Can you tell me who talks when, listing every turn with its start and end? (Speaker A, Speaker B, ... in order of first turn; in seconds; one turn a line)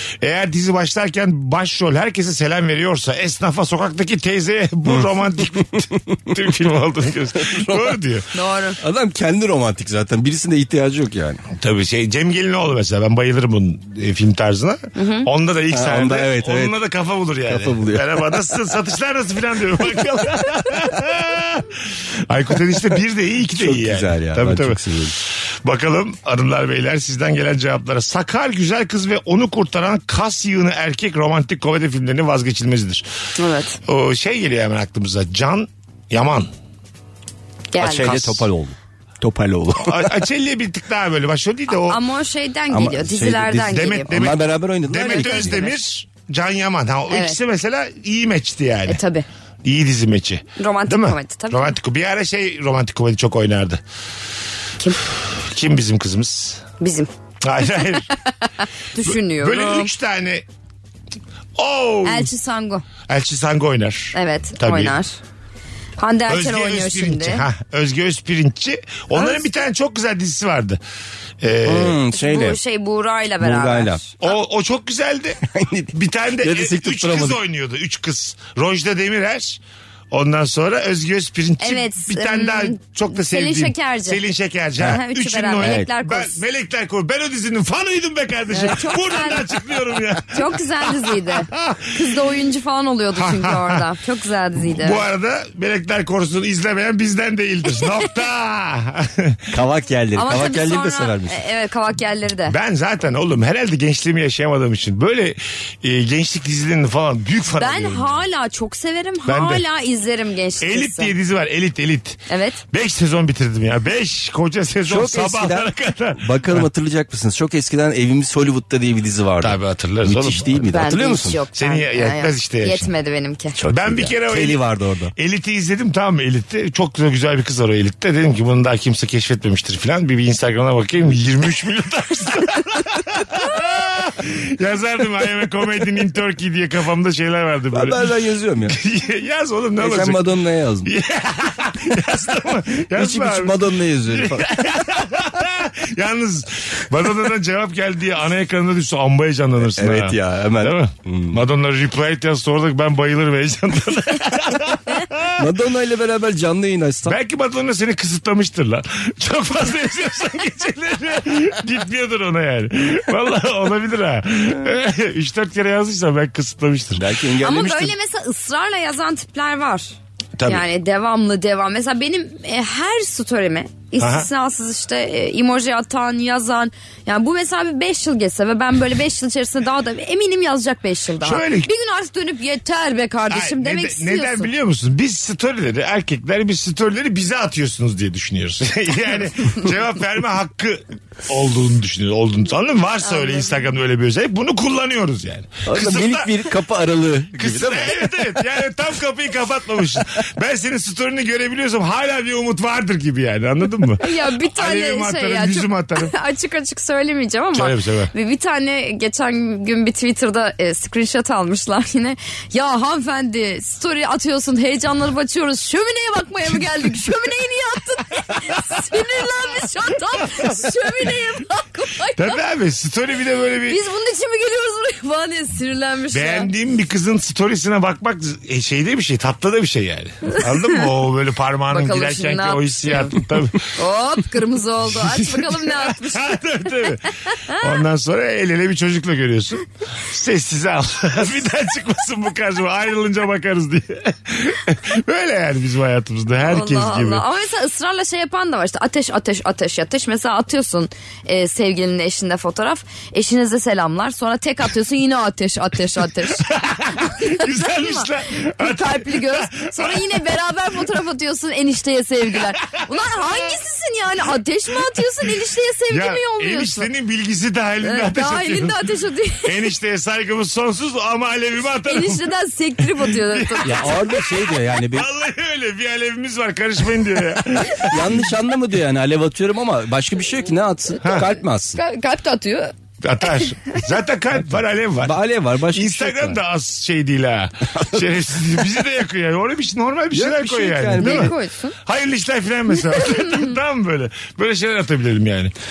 Speaker A: 0.2-8.3
Speaker B: 7.5-7.9
Speaker C: 8.3-8.8
Speaker B: 8.8-11.4
Speaker A: 11.5-24.8
Speaker C: 14.9-15.3
Speaker B: 15.7-16.7
Speaker B: 17.5-18.1
Speaker B: 23.6-25.1
Speaker A: 25.6-33.0
Speaker C: 33.4-33.8
Speaker A: 33.9-36.5
Speaker C: 37.7-38.4
Speaker B: 37.8-40.2
Speaker A: 39.8-42.0
Speaker C: 41.8-44.1
Speaker B: 42.7-45.7
Speaker A: 43.7-49.0
Speaker C: 45.0-45.8
Speaker C: 47.1-47.4
Speaker C: 48.9-49.2
Speaker A: 49.6-53.8
Speaker C: 50.6-51.7
Speaker A: 55.1-56.6
Speaker C: 56.8-57.1
Speaker A: 57.4-58.1
Speaker C: 58.9-59.9
Speaker A: 59.0-60.4
Speaker A: 61.6-62.3
Speaker C: 62.0-62.9
Speaker A: 63.1-64.9
Speaker C: 64.1-65.1
Speaker C: 66.0-67.5
Speaker A: 66.3-70.8
Speaker C: 69.1-69.4
Speaker A: 71.4-72.0
Speaker B: 71.6-72.6
Speaker C: 72.1-74.2
Speaker B: 73.4-74.0
Speaker A: 74.2-75.4
Speaker B: 75.5-77.4
Speaker A: 75.9-79.6
Speaker A: 80.1-92.0
Speaker C: 81.6-84.2
Speaker C: 84.8-86.4
Speaker B: 85.6-85.9
Speaker C: 88.5-89.5
Speaker C: 90.3-95.0
Speaker A: 93.1-93.9
Speaker A: 94.6-99.4
Speaker B: 99.5-101.4
Speaker C: 100.1-102.5
Speaker A: 102.5-108.2
Speaker C: 107.6-111.1
Speaker A: 109.2-109.6
Speaker A: 110.6-116.7
Speaker C: 112.3-112.6
Speaker B: 114.9-121.4
Speaker A: 119.4-120.6
Speaker C: 120.7-123.5
Speaker A: 121.5-122.9
Speaker B: 123.6-125.1
Speaker A: 123.7-124.6
Speaker A: 125.2-138.1
Speaker B: 137.7-138.8
Speaker A: 138.7-140.2
Speaker B: 139.8-140.9
Speaker A: 140.8-155.5
Speaker B: 142.9-144.5
Speaker B: 149.7-151.4
Speaker B: 155.4-157.2
Speaker A: 157.1-167.1
Speaker B: 166.9-167.9
Speaker C: 167.4-169.9
Speaker A: 170.4-170.6
Speaker C: 170.4-184.5
Speaker A: 174.0-174.3
Speaker A: 181.2-181.7
Speaker A: 183.3-196.3
Speaker C: 193.0-193.5
Speaker B: 195.7-198.0
Speaker A: 197.3-206.1
Speaker C: 204.0-222.4
Speaker A: 207.5-208.1
Speaker A: 222.2-223.8
Speaker C: 223.7-226.5
Speaker A: 226.1-233.7
Speaker C: 231.7-233.2
Speaker C: 233.8-236.4
Speaker A: 234.9-237.0
Speaker C: 237.5-237.7
Speaker A: 237.5-247.2
Speaker C: 246.4-266.9
Speaker A: 256.4-260.1
Speaker A: 265.9-268.8
Speaker C: 267.8-269.7
Speaker A: 269.4-272.2
Speaker C: 271.9-273.9
Speaker A: 272.8-278.3
Speaker B: 273.6-275.1
Speaker B: 277.8-281.8
Speaker A: 281.0-281.3
Speaker C: 281.7-282.7
Speaker A: 283.0-285.2
Speaker B: 285.0-286.4
Speaker A: 285.7-295.5
Speaker B: 290.1-291.4
Speaker C: 291.0-291.8
Speaker C: 292.9-293.5